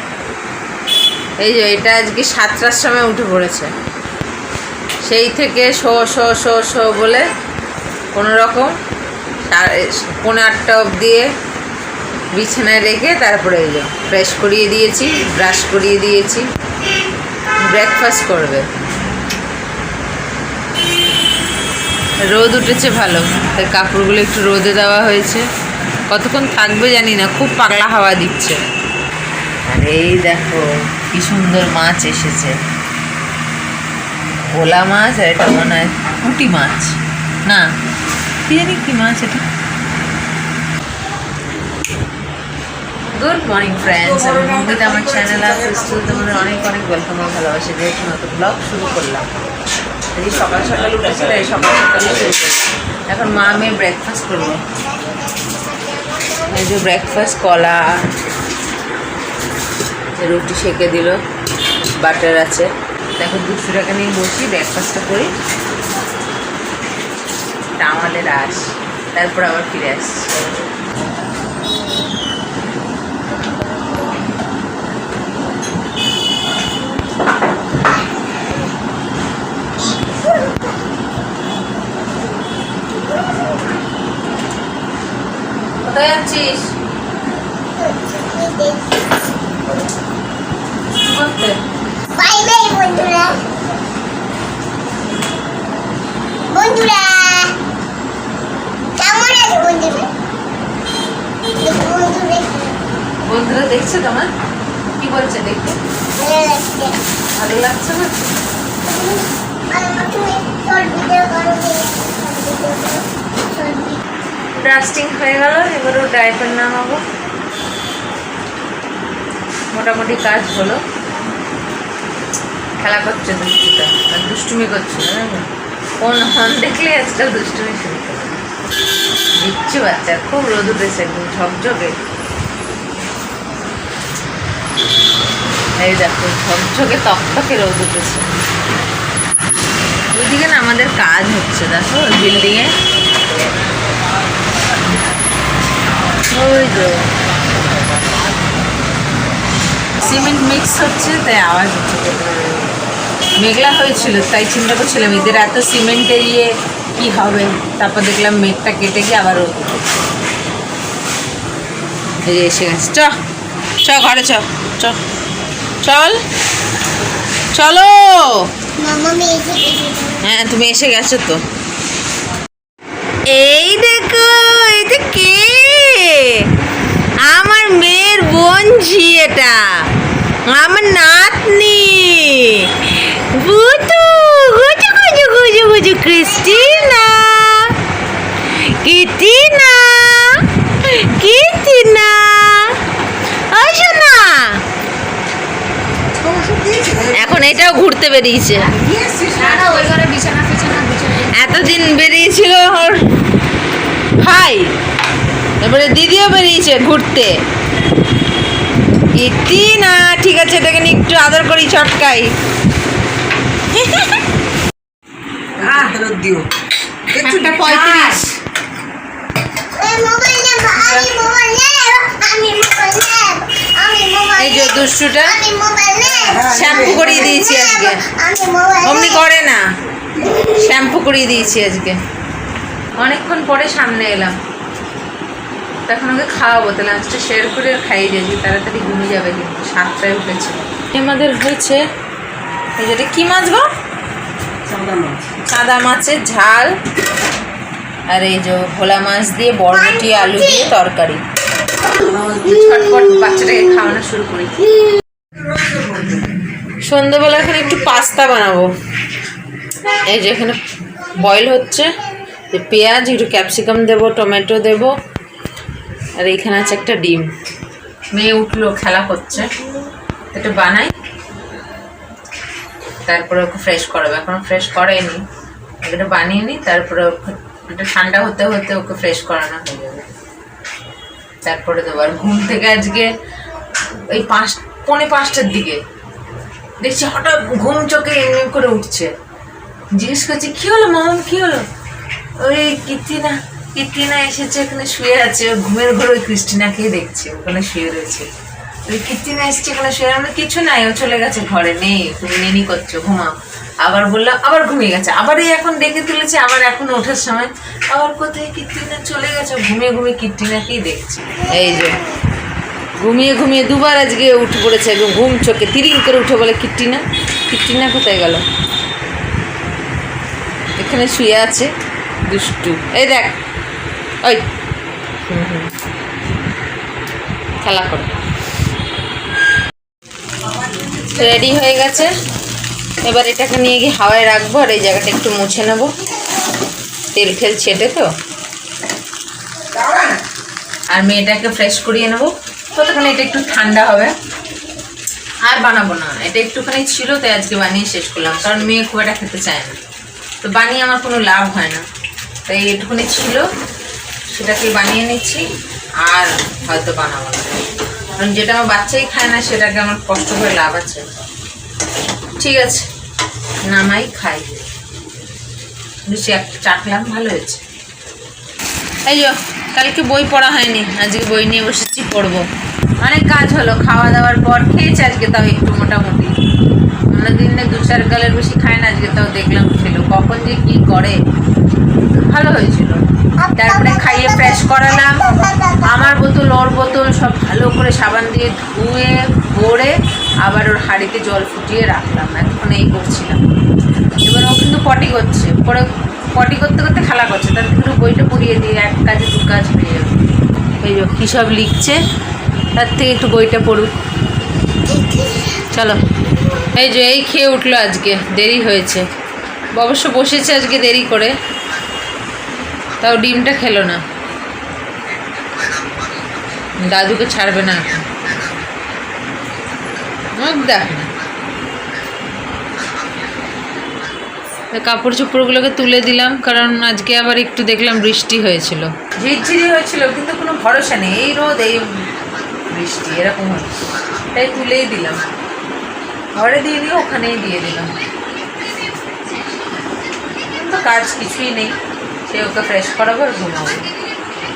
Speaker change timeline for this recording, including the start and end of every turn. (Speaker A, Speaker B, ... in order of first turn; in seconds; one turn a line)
Speaker A: 1.4-3.7
Speaker A: 5.0-7.3
Speaker A: 8.1-8.7
Speaker A: 9.4-11.3
Speaker A: 12.3-16.5
Speaker A: 17.6-18.7
Speaker A: 22.2-25.5
Speaker A: 26.1-28.6
Speaker A: 29.7-32.6
Speaker A: 34.5-37.7
Speaker A: 38.5-39.4
Speaker A: 43.1-49.3
Speaker A: 50.1-54.6
Speaker B: 54.7-56.5
Speaker A: 56.5-58.1
Speaker A: 60.1-61.2
Speaker A: 62.0-65.3
Speaker A: 67.8-70.5
Speaker A: 85.8-86.7
Speaker B: 87.7-88.9
Speaker A: 91.0-91.6
Speaker B: 92.1-93.5
Speaker B: 96.5-97.5
Speaker B: 99.0-100.1
Speaker B: 101.6-102.8
Speaker A: 103.2-104.3
Speaker A: 105.0-105.8
Speaker B: 106.2-107.0
Speaker A: 107.4-108.3
Speaker B: 108.8-114.0
Speaker A: 114.5-117.0
Speaker A: 119.7-120.8
Speaker A: 122.8-125.5
Speaker A: 126.0-128.4
Speaker A: 129.3-132.0
Speaker A: 135.8-138.3
Speaker A: 140.2-142.7
Speaker A: 146.2-147.1
Speaker A: 150.0-152.8
Speaker A: 153.4-159.9
Speaker A: 162.2-163.2
Speaker A: 163.8-165.0
Speaker A: 165.8-166.2
Speaker A: 167.5-168.5
Speaker B: 168.8-170.2
Speaker A: 170.2-171.4
Speaker A: 173.3-176.5
Speaker A: 177.2-179.9
Speaker A: 180.4-187.8
Speaker B: 186.4-186.9
Speaker A: 188.4-192.8
Speaker A: 193.5-194.6
Speaker C: 196.2-197.4
Speaker A: 197.1-198.8
Speaker C: 198.7-200.1
Speaker B: 199.5-201.3
Speaker A: 201.3-203.1
Speaker A: 204.2-204.8
Speaker A: 205.6-207.4
Speaker A: 209.1-212.3
Speaker A: 213.7-214.2
Speaker A: 215.6-216.0
Speaker C: 215.6-216.4
Speaker A: 217.1-218.3
Speaker C: 217.2-218.2
Speaker B: 219.7-229.3
Speaker A: 220.8-221.2
Speaker A: 224.4-225.4
Speaker C: 226.2-227.0
Speaker A: 226.4-228.0
Speaker A: 228.8-229.7
Speaker A: 230.3-232.0
Speaker A: 233.0-234.4
Speaker A: 235.9-241.8
Speaker A: 242.8-243.7
Speaker C: 244.7-245.2
Speaker A: 245.4-246.8
Speaker A: 248.1-251.2
Speaker B: 249.7-250.7
Speaker A: 252.1-255.0
Speaker A: 256.8-258.7
Speaker A: 260.1-260.6
Speaker A: 261.2-261.9
Speaker A: 262.5-264.9
Speaker A: 266.2-267.3
Speaker A: 268.1-269.5
Speaker A: 270.3-270.9
Speaker A: 273.1-275.2
Speaker A: 275.8-280.1
Speaker A: 281.4-283.1
Speaker A: 284.1-285.8
Speaker A: 286.8-289.1
Speaker A: 289.9-291.7
Speaker A: 292.4-298.3
Speaker A: 298.9-312.0
Speaker B: 311.5-312.1
Speaker A: 313.0-318.4
Speaker A: 320.8-321.7
Speaker A: 322.3-323.4
Speaker A: 324.2-324.5
Speaker A: 325.3-325.7
Speaker A: 327.6-328.1
Speaker A: 331.1-332.1
Speaker A: 333.0-335.9
Speaker A: 337.1-338.1
Speaker A: 340.9-344.1
Speaker A: 345.4-349.8
Speaker A: 350.4-351.8
Speaker A: 352.5-353.5
Speaker A: 354.3-355.5
Speaker A: 356.0-357.6
Speaker A: 358.1-361.1
Speaker A: 362.4-362.9
Speaker A: 363.7-364.6
Speaker A: 366.1-367.6
Speaker A: 369.1-372.5
Speaker A: 373.0-376.3
Speaker A: 377.1-381.2
Speaker A: 382.2-383.0
Speaker B: 383.4-386.1
Speaker A: 383.6-393.4
Speaker A: 394.2-400.2
Speaker A: 400.8-402.0
Speaker A: 402.8-404.0
Speaker B: 404.9-405.6
Speaker A: 405.7-406.0
Speaker A: 406.7-409.1
Speaker A: 409.8-411.3
Speaker A: 413.0-414.0
Speaker A: 416.8-418.1
Speaker A: 420.4-421.1
Speaker A: 424.7-431.9
Speaker A: 432.7-433.8
Speaker A: 434.3-435.2
Speaker A: 436.3-437.9
Speaker A: 440.5-441.8
Speaker A: 442.3-443.9